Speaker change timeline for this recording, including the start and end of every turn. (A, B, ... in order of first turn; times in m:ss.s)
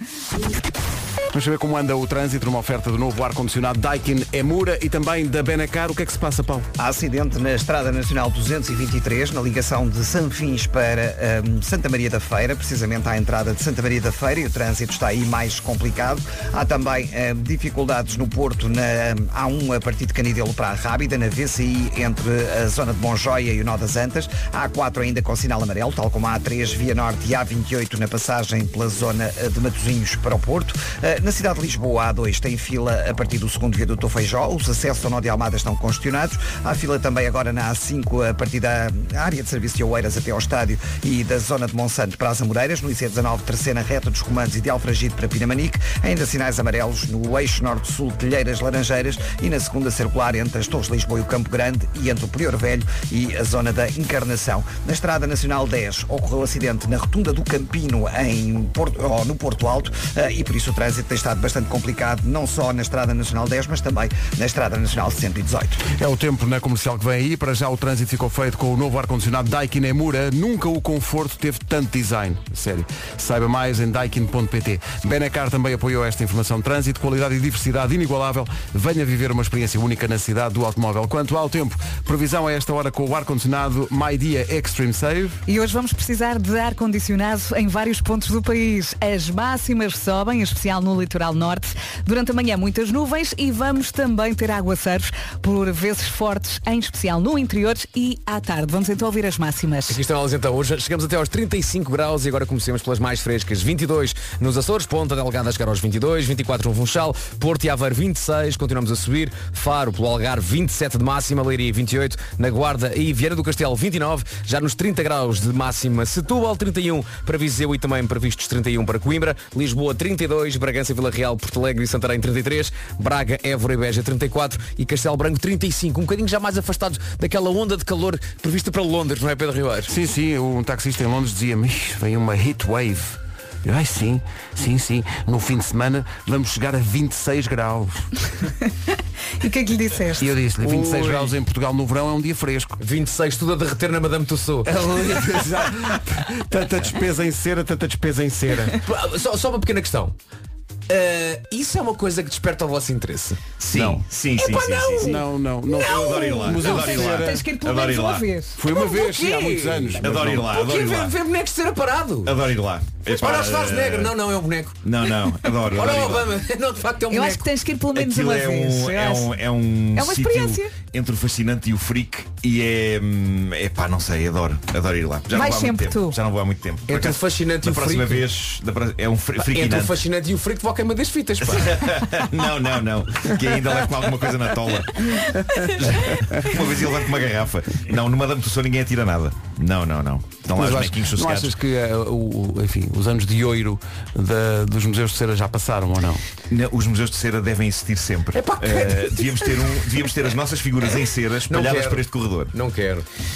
0:01.3-0:06.7 A
0:06.8-1:05.8 B
1:05.9-1:25.4 A
1:25.5-1:40.0 C
1:39.9-2:09.9 D
2:09.9-2:18.1 A
2:19.4-2:20.3 C
2:20.2-2:22.8 A
2:20.6-2:21.3 D
2:22.8-2:25.9 D
2:24.7-2:28.8 A
2:28.8-2:30.2 D
2:30.9-2:33.4 D
2:33.6-2:35.2 E
2:33.7-2:34.0 A
2:34.4-2:36.2 D
2:35.0-2:37.5 A
2:35.8-2:38.3 E
2:36.6-2:38.6 C
2:38.6-2:40.5 A
2:38.7-2:42.4 D
2:40.0-2:41.2 E
2:42.2-2:44.2 E
2:43.1-2:44.8 D
2:44.8-2:46.3 E
2:45.7-2:47.5 D
2:47.1-2:49.3 C
2:47.9-3:00.0 E
2:50.0-2:50.7 C
2:55.3-2:56.2 C
2:56.9-2:58.3 D
2:59.5-3:02.1 D
3:01.4-3:05.2 E
3:05.7-3:11.5 E
3:10.6-3:16.2 A
3:16.5-3:22.5 E
3:18.3-3:19.6 D
3:21.5-3:23.1 D